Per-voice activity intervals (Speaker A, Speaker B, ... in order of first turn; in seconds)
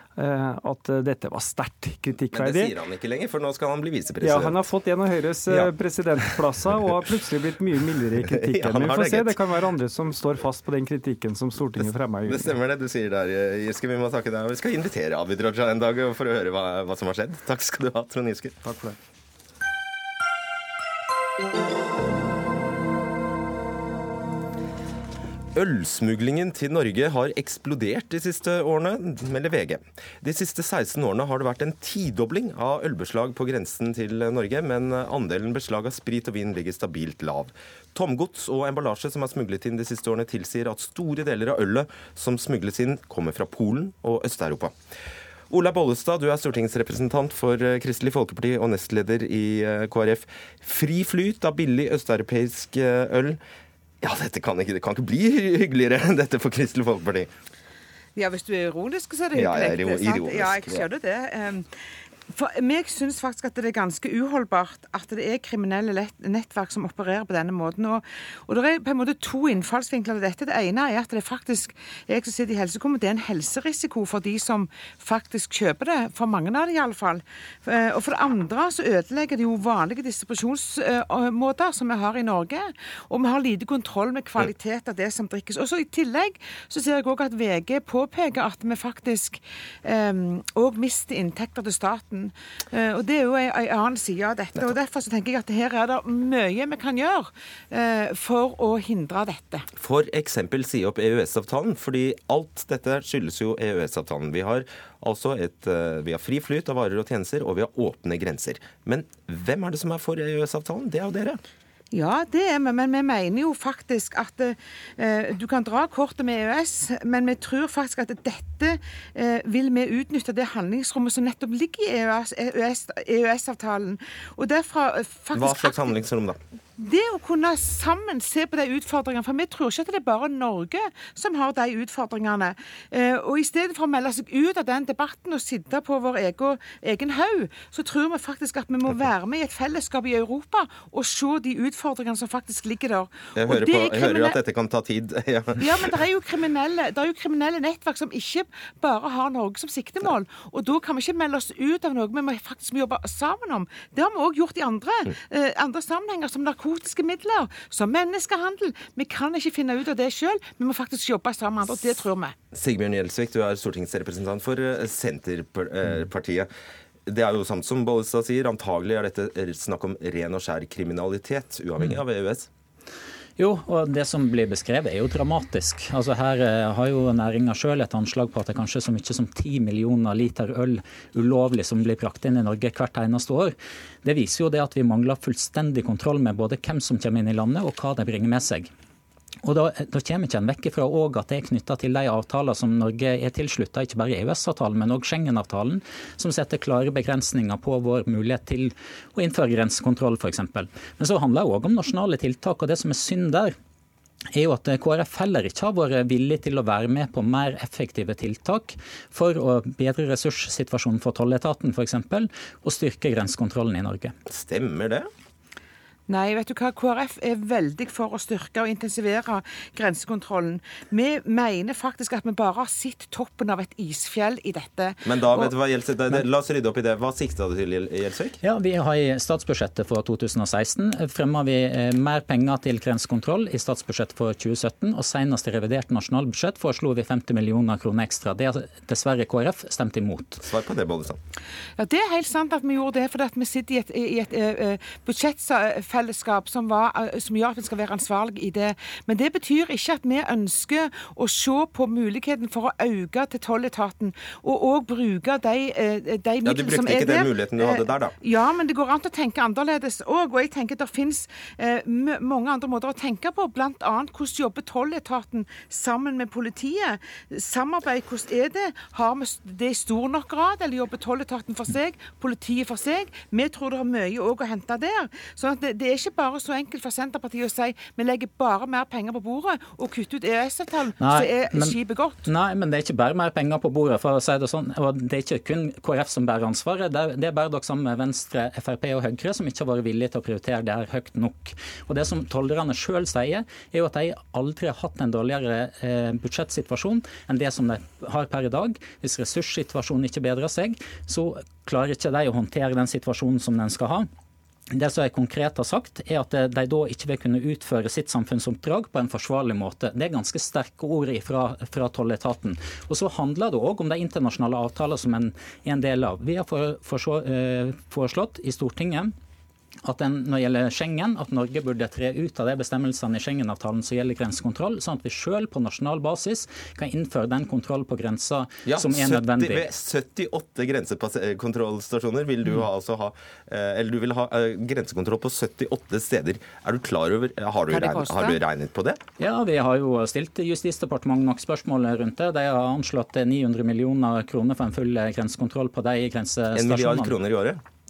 Speaker A: 0.2-2.7, 4.2-12.6, 18.6-18.9
Speaker B: 2.3-4.7, 5.5-6.3, 8.2-9.4, 11.8-18.6, 25.6-44.7, 45.5-53.4, 54.0-57.3, 59.3-60.8, 99.8-111.4, 125.3-126.4, 143.3-146.0, 162.5-166.5, 167.1-172.5, 214.3-215.1, 225.0-228.4, 240.4-241.2, 256.4-258.2, 328.6-339.0, 346.5-347.6
Speaker C: 58.1-61.7, 62.3-99.7, 111.9-126.0, 126.8-144.4, 145.6-162.4, 216.1-225.5, 241.8-282.3, 337.7-338.4
Speaker D: 173.4-188.7, 189.4-203.6, 204.3-214.1, 228.4-240.4, 281.0-304.1, 304.7-319.1, 319.8-329.7, 339.2-347.2